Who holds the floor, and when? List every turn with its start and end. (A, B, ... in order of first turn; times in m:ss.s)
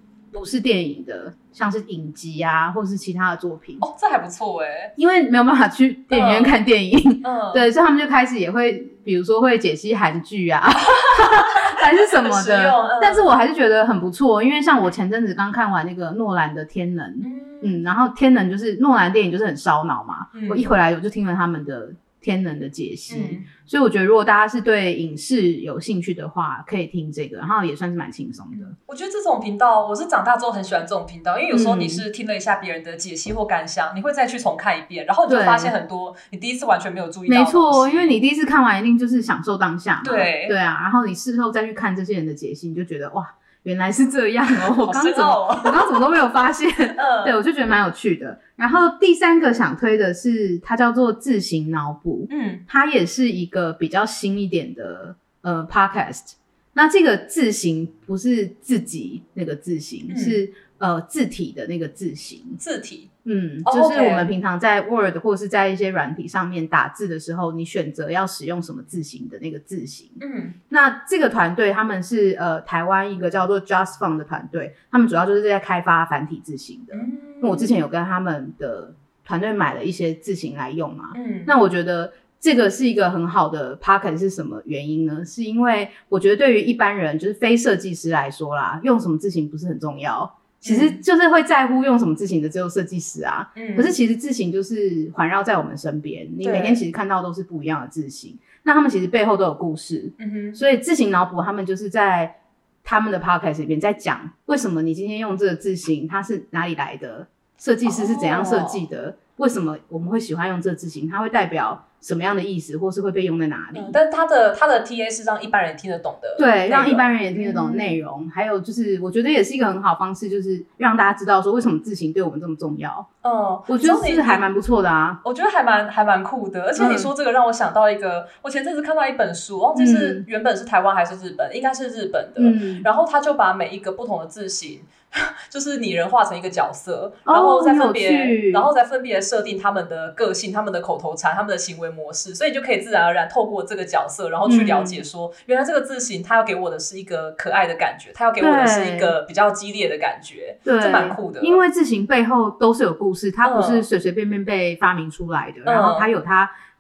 0:00.3-0:03.9 A
0:03.8-0:04.9 B
0:05.0-0:28.8 A
0:06.1-0:06.6 B
0:07.2-0:07.7 B
0:11.1-0:13.4 B
0:17.2-0:17.8 B
0:20.3-0:20.7 B
0:23.1-0:23.5 B
0:28.5-0:38.2 B
0:31.5-0:32.0 A
0:35.3-0:35.8 A
0:37.3-1:02.6 A
0:40.0-0:40.6 B
0:44.6-0:45.9 B
0:46.9-0:47.4 B
0:52.3-0:52.6 B
1:00.1-1:00.4 B
1:02.6-1:03.1 B
1:03.2-1:54.0 A
1:03.6-1:04.3 B
1:10.2-1:10.6 B
1:16.9-1:17.8 B
1:21.1-1:21.5 B
1:30.6-1:31.0 B
1:33.6-1:34.0 B
1:36.4-1:36.8 B
1:40.2-1:40.6 B
1:47.8-1:48.8 B
1:53.7-1:58.0 B
1:56.4-2:03.1 A
2:03.2-2:04.5 B
2:03.7-2:05.2 A
2:05.2-2:31.6 B
2:06.8-2:07.1 A
2:09.8-2:10.3 A
2:12.4-2:12.9 A
2:17.3-2:18.7 A
2:24.4-2:25.0 A
2:28.4-2:29.2 A
2:30.7-2:36.5 A
2:33.4-2:33.9 B
2:35.6-2:36.1 B